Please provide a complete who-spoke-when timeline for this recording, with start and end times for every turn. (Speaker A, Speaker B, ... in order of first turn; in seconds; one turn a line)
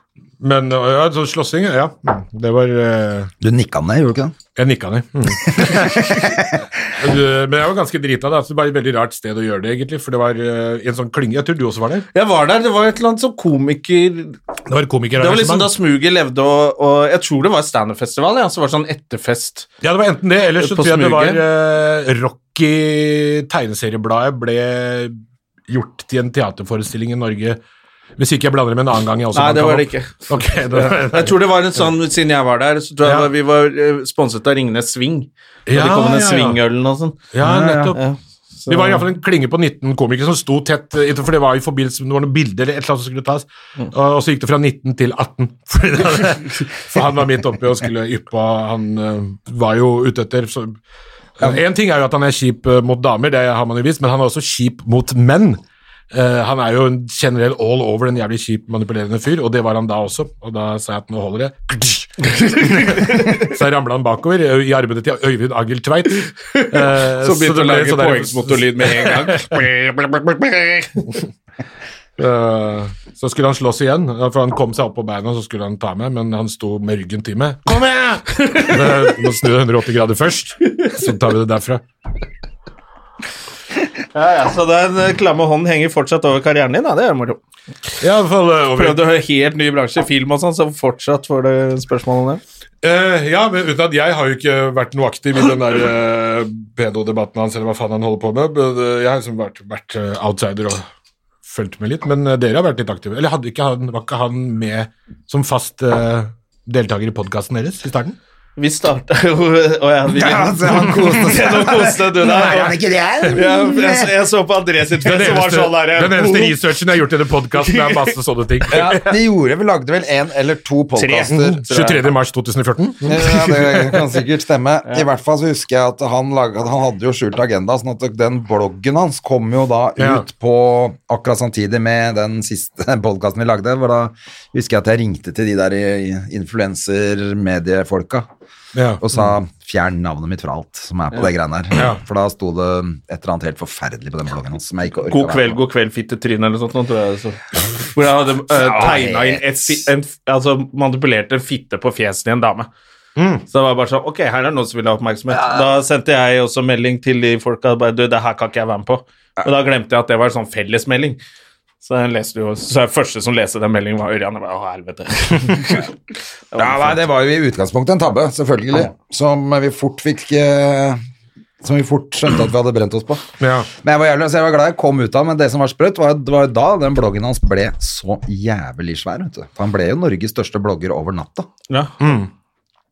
Speaker A: 0.4-3.3
Speaker B: 3.4-4.3
Speaker A: 4.6-12.1
Speaker B: 6.0-6.4
Speaker C: 12.1-14.4
Speaker A: 14.7-15.7
Speaker C: 15.2-19.7
Speaker A: 19.8-25.2
Speaker C: 20.6-21.4
Speaker A: 25.7-27.6
Speaker A: 28.2-31.4
Speaker C: 29.3-37.2
Speaker A: 33.0-33.3
Speaker A: 35.7-36.6
Speaker A: 37.3-38.0
Speaker B: 37.4-38.0
Speaker C: 37.9-39.0
Speaker A: 38.7-50.8
Speaker A: 51.4-55.6
Speaker A: 56.1-71.2
Speaker C: 62.4-63.4
Speaker C: 66.4-69.6
Speaker A: 72.2-81.8
Speaker C: 78.4-79.0
Speaker C: 84.1-87.4
Speaker A: 88.0-89.0
Speaker C: 88.8-92.4
Speaker A: 92.8-100.9
Speaker A: 101.5-108.2
Speaker C: 108.6-112.7
Speaker B: 110.1-114.1
Speaker C: 113.3-116.6
Speaker A: 115.0-119.2
Speaker C: 117.5-118.1
Speaker B: 118.7-121.6
Speaker C: 121.0-122.1
Speaker A: 121.3-124.0
Speaker B: 123.0-138.3
Speaker A: 130.0-130.3
Speaker A: 138.7-139.3
Speaker B: 139.0-145.6
Speaker C: 145.1-152.7
Speaker B: 148.5-149.8
Speaker A: 153.2-153.4
Speaker C: 153.5-161.2
Speaker C: 161.8-165.9
Speaker C: 166.5-167.0
Speaker B: 166.6-171.0
Speaker B: 171.6-173.2
Speaker A: 173.4-173.7
Speaker B: 173.8-181.5
Speaker A: 182.0-182.3